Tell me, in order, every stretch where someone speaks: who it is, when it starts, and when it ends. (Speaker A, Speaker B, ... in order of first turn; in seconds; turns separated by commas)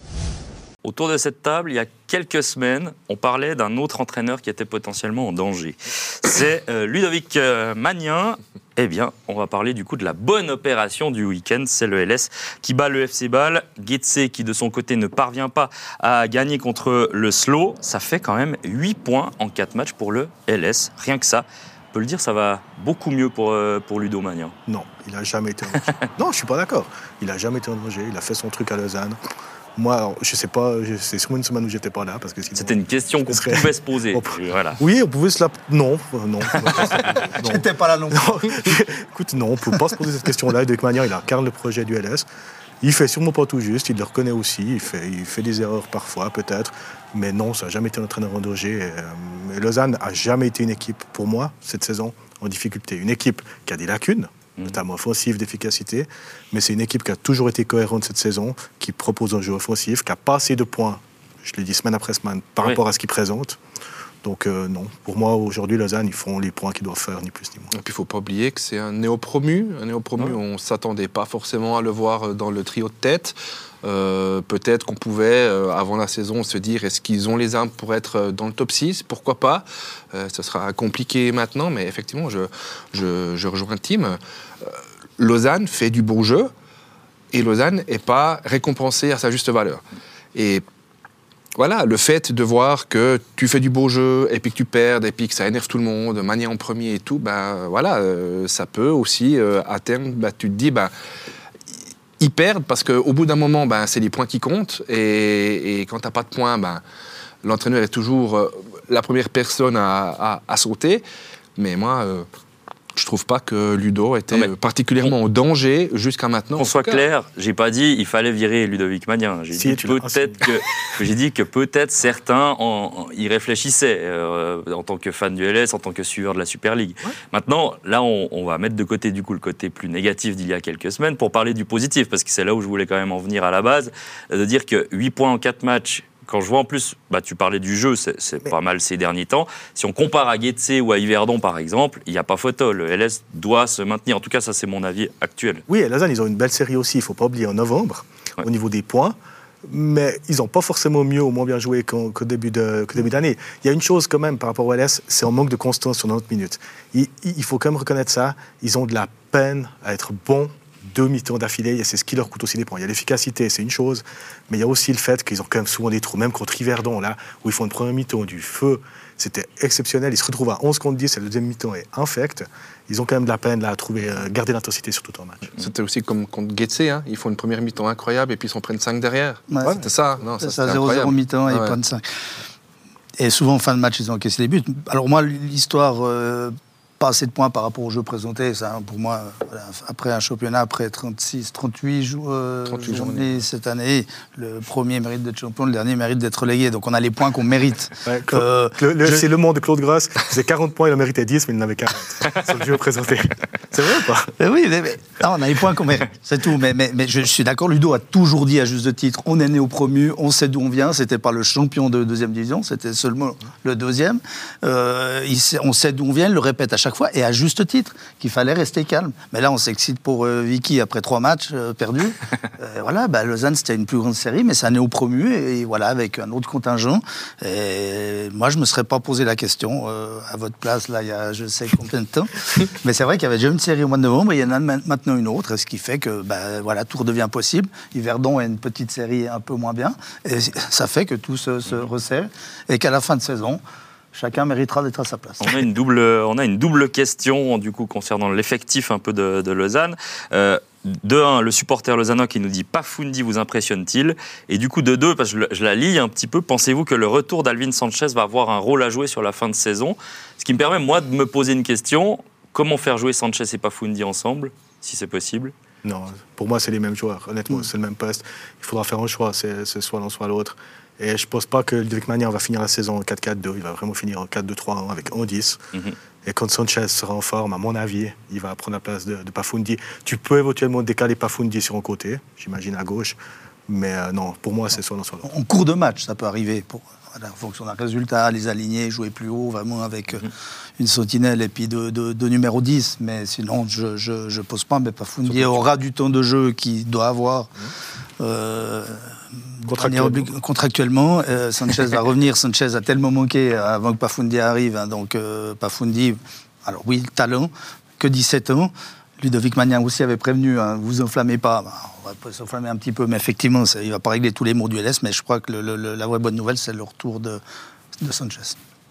Speaker A: 0.8-24.6, Speaker B: 24.7-29.2, Speaker B: 29.8-42.3, Speaker A: 32.5-34.8, Speaker C: 37.4-38.3, Speaker B: 42.8-63.6, Speaker B: 64.2-67.7, Speaker D: 67.7-86.5, Speaker D: 87.3-89.8, Speaker D: 90.3-90.7, Speaker D: 91.6-100.9, Speaker D: 102.2-106.8, Speaker D: 107.4-111.0, Speaker D: 111.6-112.3, Speaker D: 113.0-117.0, Speaker A: 114.3-115.1, Speaker A: 116.6-145.6, Speaker B: 119.5-120.5, Speaker B: 145.7-175.5, Speaker D: 175.6-181.8, Speaker C: 179.5-179.9, Speaker C: 180.4-182.0, Speaker C: 183.2-199.2, Speaker D: 192.7-193.4, Speaker B: 198.1-204.3, Speaker C: 204.3-243.6, Speaker C: 244.1-245.5, Speaker A: 245.4-265.5, Speaker B: 265.8-275.6, Speaker B: 276.2-285.3, Speaker C: 285.2-297.5, Speaker B: 295.3-295.6, Speaker C: 298.2-317.4, Speaker B: 299.6-300.3, Speaker C: 318.0-318.6